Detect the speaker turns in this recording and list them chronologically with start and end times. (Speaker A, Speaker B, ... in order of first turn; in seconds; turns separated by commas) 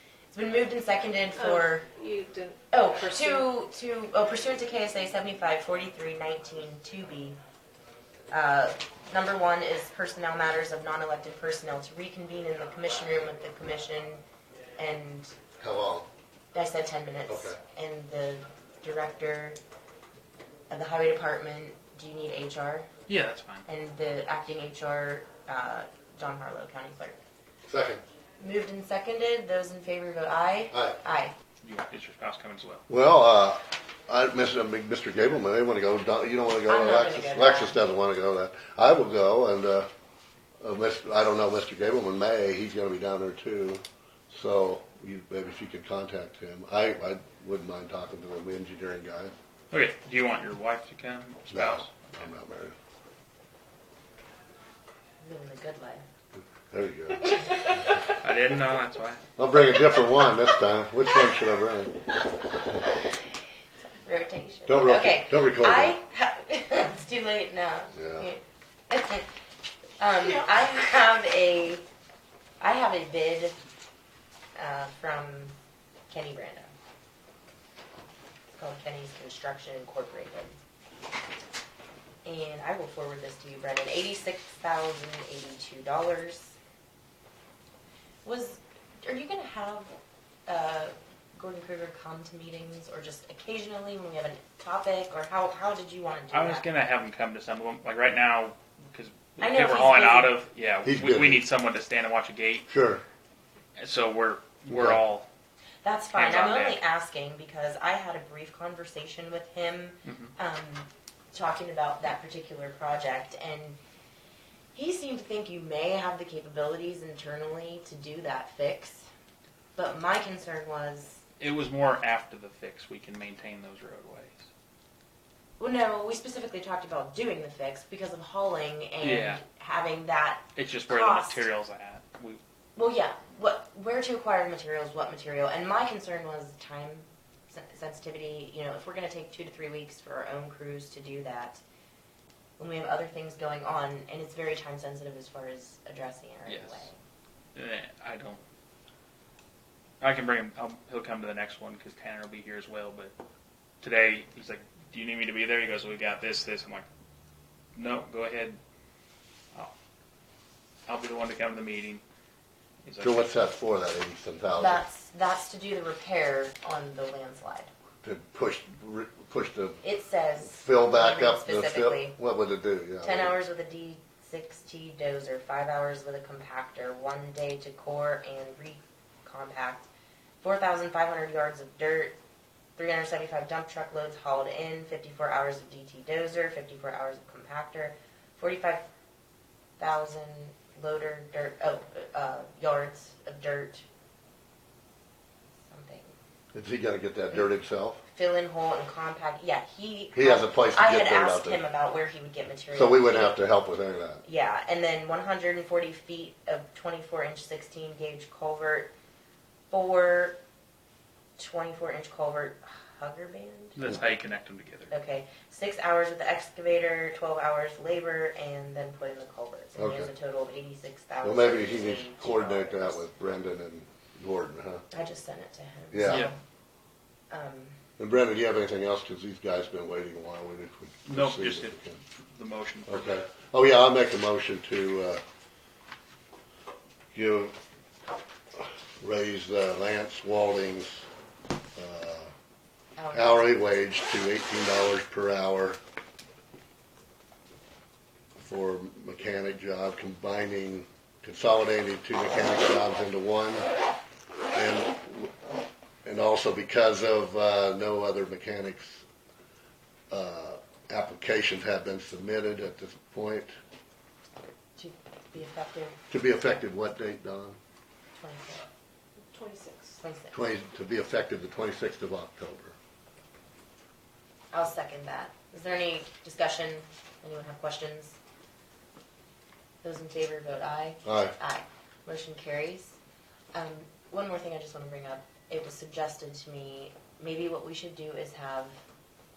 Speaker A: 0.3-1.9, Speaker B: 1.4-3.5, Speaker A: 2.7-7.4, Speaker A: 8.3-14.2, Speaker A: 14.8-15.4, Speaker C: 15.6-16.1, Speaker A: 16.5-19.6, Speaker C: 17.3-17.6, Speaker A: 20.7-22.9, Speaker D: 23.1-23.6, Speaker A: 23.7-27.2, Speaker C: 27.7-28.0, Speaker A: 28.4-31.3, Speaker C: 30.7-31.0, Speaker D: 31.6-32.8, Speaker C: 32.9-39.9, Speaker A: 36.7-37.8, Speaker C: 40.6-49.3, Speaker D: 49.7-52.3, Speaker C: 51.5-52.8, Speaker A: 55.2-56.0, Speaker C: 56.7-57.6, Speaker D: 58.2-59.2, Speaker C: 59.4-62.1, Speaker A: 63.9-69.3, Speaker C: 64.7-66.0, Speaker C: 68.0-68.3, Speaker A: 70.0-71.9, Speaker A: 72.6-73.6, Speaker A: 74.6-75.5, Speaker A: 76.1-76.7, Speaker A: 78.5-80.6, Speaker A: 82.2-86.6, Speaker A: 88.2-89.9, Speaker A: 90.5-96.7, Speaker D: 96.3-102.7, Speaker A: 99.4-100.4, Speaker C: 100.8-101.4, Speaker C: 102.7-103.0, Speaker D: 103.8-105.3, Speaker C: 104.7-105.0, Speaker A: 105.8-113.8, Speaker D: 106.1-106.8, Speaker D: 110.1-110.3, Speaker A: 114.7-119.1, Speaker A: 119.8-121.2, Speaker D: 121.4-124.5, Speaker A: 125.6-131.5, Speaker D: 129.0-129.4, Speaker D: 130.6-132.4, Speaker A: 132.8-141.6, Speaker A: 142.6-147.0, Speaker D: 146.5-146.9, Speaker D: 147.6-148.4, Speaker D: 150.0-153.1, Speaker D: 153.8-156.9, Speaker D: 157.7-158.6, Speaker D: 160.9-162.0, Speaker D: 162.8-163.3, Speaker C: 163.0-164.8, Speaker A: 164.6-167.7, Speaker C: 168.0-169.8, Speaker A: 169.8-172.2, Speaker C: 170.4-173.4, Speaker A: 173.0-179.9, Speaker A: 180.4-182.2, Speaker A: 182.8-188.8, Speaker A: 189.8-193.8, Speaker A: 195.7-196.1, Speaker C: 196.5-198.0, Speaker A: 198.1-203.4, Speaker C: 200.1-201.6, Speaker C: 202.7-204.2, Speaker A: 204.2-208.9, Speaker A: 209.7-210.4, Speaker A: 211.4-214.1, Speaker D: 213.8-214.9, Speaker A: 214.9-223.1, Speaker C: 219.8-220.1, Speaker C: 221.2-224.8, Speaker A: 224.9-226.4, Speaker C: 225.9-226.3, Speaker D: 226.1-226.3, Speaker A: 227.3-227.8, Speaker C: 228.0-232.0, Speaker D: 231.1-233.2, Speaker C: 232.9-235.2, Speaker C: 237.1-237.6, Speaker C: 238.6-241.1, Speaker C: 241.8-242.3, Speaker A: 243.0-243.4, Speaker C: 243.1-245.8, Speaker C: 248.4-253.7, Speaker C: 254.5-255.4, Speaker C: 256.1-259.0, Speaker C: 260.1-263.5, Speaker A: 264.8-266.0, Speaker C: 266.1-267.6, Speaker A: 268.2-268.6, Speaker B: 269.2-270.0, Speaker A: 270.0-270.3, Speaker C: 270.3-272.8, Speaker A: 274.5-278.2, Speaker A: 279.8-283.0, Speaker C: 281.1-281.4, Speaker A: 283.5-288.7